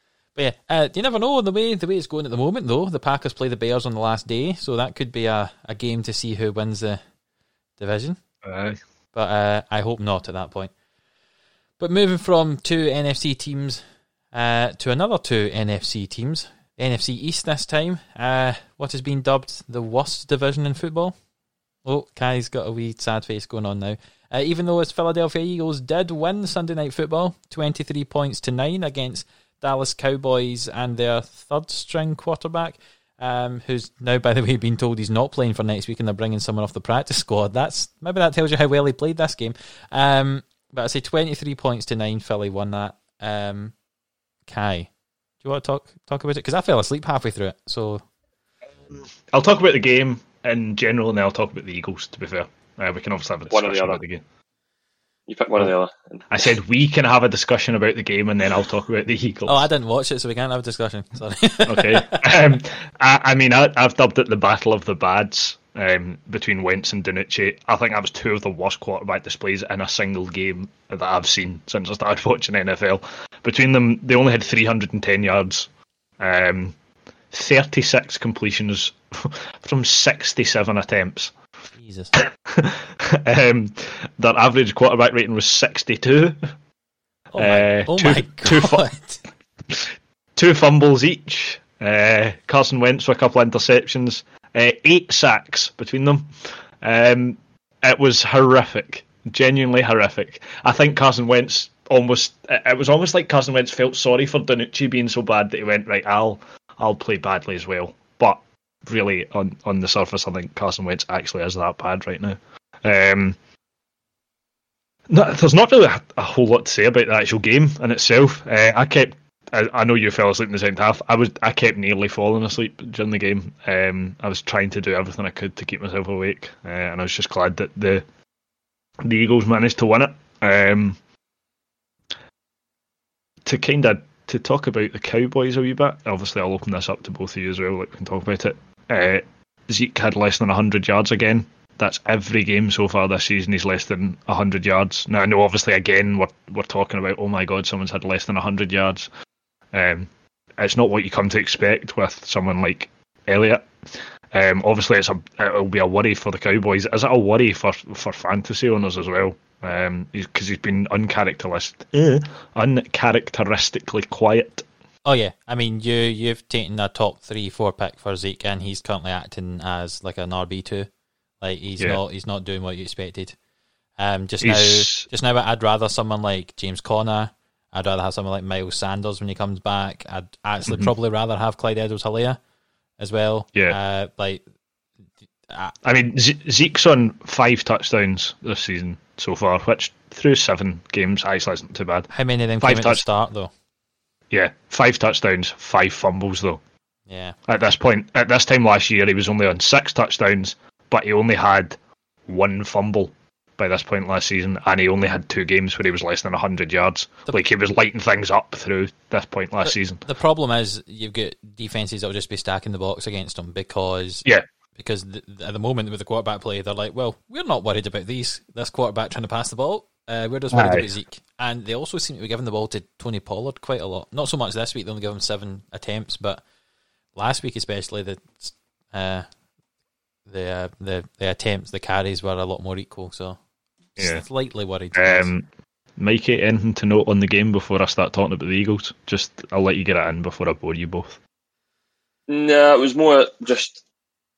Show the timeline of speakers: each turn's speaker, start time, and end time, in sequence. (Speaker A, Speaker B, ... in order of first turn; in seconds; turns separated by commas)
Speaker A: 0.3-7.0, Speaker A: 7.8-8.2, Speaker B: 8.4-8.8, Speaker A: 9.1-10.7, Speaker A: 11.8-21.1, Speaker A: 21.8-43.7, Speaker A: 44.5-44.9, Speaker A: 45.4-48.0, Speaker B: 48.8-54.2, Speaker C: 53.5-54.0, Speaker C: 55.3-56.5, Speaker B: 56.3-59.7, Speaker A: 59.5-62.4, Speaker B: 61.7-76.7, Speaker B: 77.3-81.3, Speaker A: 81.8-82.1, Speaker B: 82.2-86.4, Speaker A: 87.3-89.2, Speaker B: 87.3-88.8, Speaker B: 89.7-113.3, Speaker B: 115.1-128.0, Speaker B: 129.0-131.0, Speaker B: 133.4-149.1, Speaker B: 149.7-153.7, Speaker B: 154.3-164.7, Speaker A: 165.1-170.9, Speaker A: 171.4-173.3, Speaker A: 174.0-182.4, Speaker B: 174.4-175.1, Speaker B: 180.7-180.9, Speaker A: 183.0-184.4, Speaker A: 185.5-185.7, Speaker B: 185.8-192.1, Speaker A: 192.1-193.5, Speaker B: 192.6-193.0, Speaker B: 194.3-196.6, Speaker A: 197.1-197.3, Speaker B: 197.5-210.0, Speaker A: 209.6-226.4, Speaker B: 220.5-220.9, Speaker A: 227.2-229.2, Speaker A: 230.3-233.4, Speaker A: 233.9-235.3, Speaker B: 234.0-234.2, Speaker B: 234.9-241.2, Speaker C: 242.3-243.8